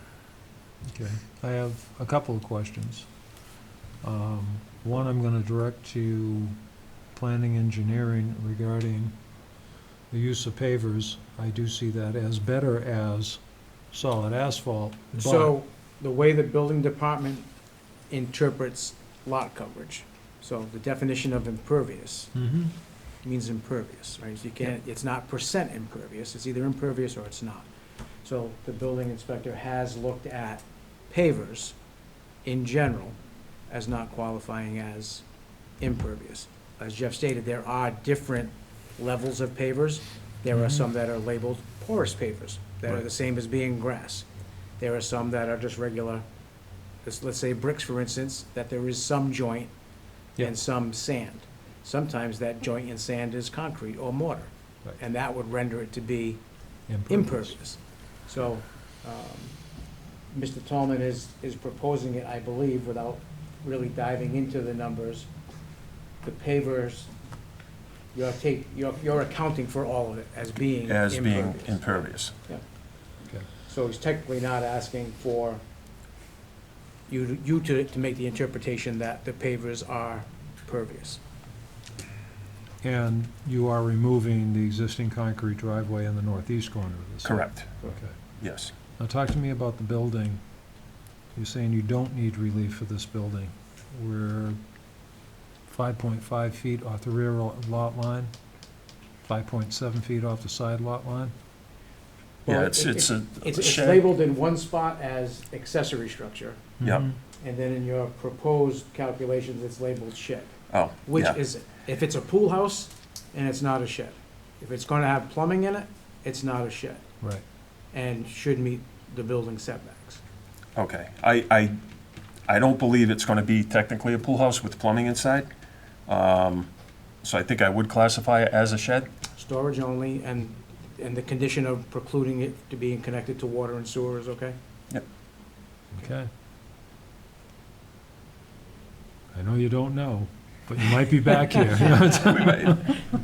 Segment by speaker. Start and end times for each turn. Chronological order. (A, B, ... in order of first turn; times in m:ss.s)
0:00.9-0:03.1 A
0:04.0-0:06.6 A
0:07.1-0:09.2 A
0:10.1-0:15.5 A
0:15.1-0:17.5 B
0:18.1-0:22.4 B
0:22.4-0:22.7 A
0:23.2-0:27.7 B
0:28.2-0:31.8 B
0:32.4-0:33.2 B
0:33.7-0:35.2 B
0:35.8-0:44.3 B
0:40.5-0:40.8 A
0:44.8-0:46.2 B
0:47.0-0:49.7 B
0:50.4-0:56.4 B
0:56.9-0:57.6 A
0:57.0-0:59.6 B
1:00.3-1:05.3 B
1:06.2-1:07.1 B
1:08.1-1:12.6 B
1:10.9-1:12.4 C
1:13.6-1:15.6 B
1:17.1-1:21.2 B
1:22.8-1:28.2 A
1:27.2-1:27.7 C
1:28.4-1:28.7 C
1:28.9-1:30.4 A
1:31.3-1:34.6 A
1:35.7-1:38.3 A
1:39.2-1:41.3 A
1:42.4-1:46.7 B
1:42.5-1:44.0 C
1:46.8-1:47.2 A
1:46.8-1:47.1 C
1:47.4-1:57.0 B
1:50.7-1:51.4 C
1:57.9-2:00.2 B
2:00.8-2:01.8 C
2:02.5-2:05.5 C
2:06.1-2:06.7 C
2:07.2-2:09.1 C
2:09.4-2:14.6 B
2:15.9-2:16.3 A
2:19.3-2:23.1 A
2:22.3-2:23.0 C